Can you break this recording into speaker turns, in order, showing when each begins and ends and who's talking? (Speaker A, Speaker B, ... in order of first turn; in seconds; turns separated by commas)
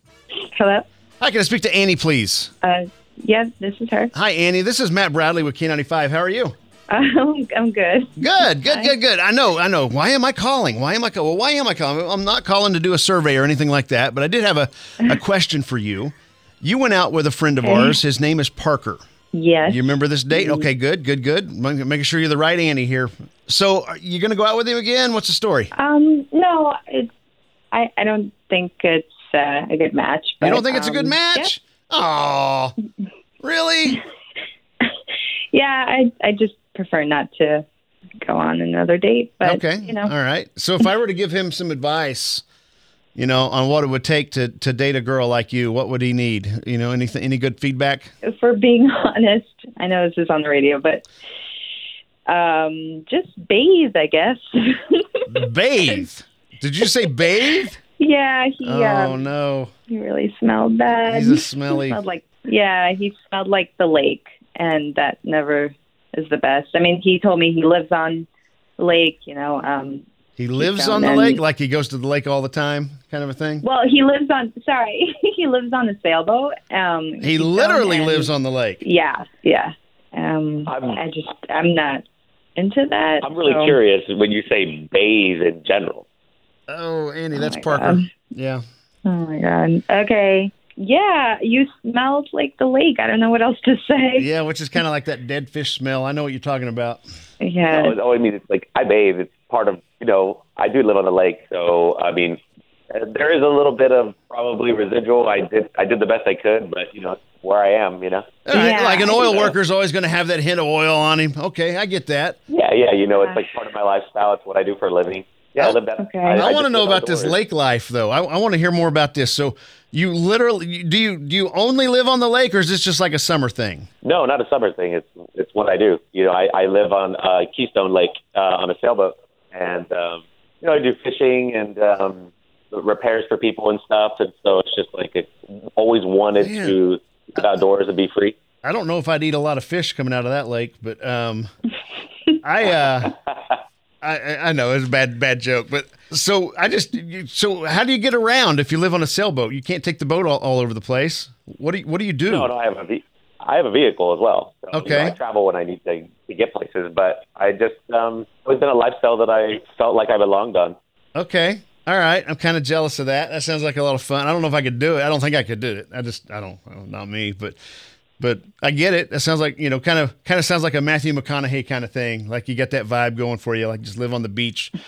Speaker A: 0.5-0.8, Speaker B: 1.2-2.5, Speaker A: 2.6-4.1, Speaker B: 4.1-6.5, Speaker A: 6.9-8.9, Speaker B: 8.2-19.0, Speaker A: 17.6-18.0, Speaker A: 19.3-20.7, Speaker B: 19.7-25.7, Speaker A: 25.7-27.1, Speaker A: 27.7-31.5, Speaker B: 30.4-32.7, Speaker B: 33.4-34.0, Speaker A: 35.5-37.6, Speaker A: 38.2-40.1, Speaker B: 39.4-42.4, Speaker B: 43.1-48.1, Speaker A: 48.2-51.0, Speaker A: 52.3-55.2, Speaker B: 55.3-57.8, Speaker A: 58.0-59.2, Speaker B: 58.6-59.7, Speaker A: 59.9-68.3, Speaker B: 61.1-62.0, Speaker A: 68.8-70.0, Speaker B: 70.4-73.6, Speaker A: 70.6-71.4, Speaker A: 73.6-82.0, Speaker B: 77.2-78.8, Speaker C: 80.7-81.0, Speaker A: 82.5-83.8, Speaker C: 83.2-86.0, Speaker B: 86.7-88.6, Speaker A: 87.3-88.1, Speaker A: 89.0-94.3, Speaker B: 94.2-97.0, Speaker A: 97.4-98.0, Speaker C: 97.7-102.4, Speaker C: 102.9-109.5, Speaker B: 108.5-112.4, Speaker A: 108.5-109.5, Speaker C: 112.5-117.4, Speaker A: 113.1-113.4, Speaker A: 116.0-116.5, Speaker B: 116.3-123.9, Speaker C: 124.0-138.4, Speaker B: 136.4-136.8, Speaker B: 138.6-141.5, Speaker B: 142.4-143.1, Speaker C: 142.9-143.5, Speaker B: 144.0-152.5, Speaker C: 152.3-160.8, Speaker B: 154.7-155.2, Speaker B: 161.1-167.6, Speaker B: 168.2-174.7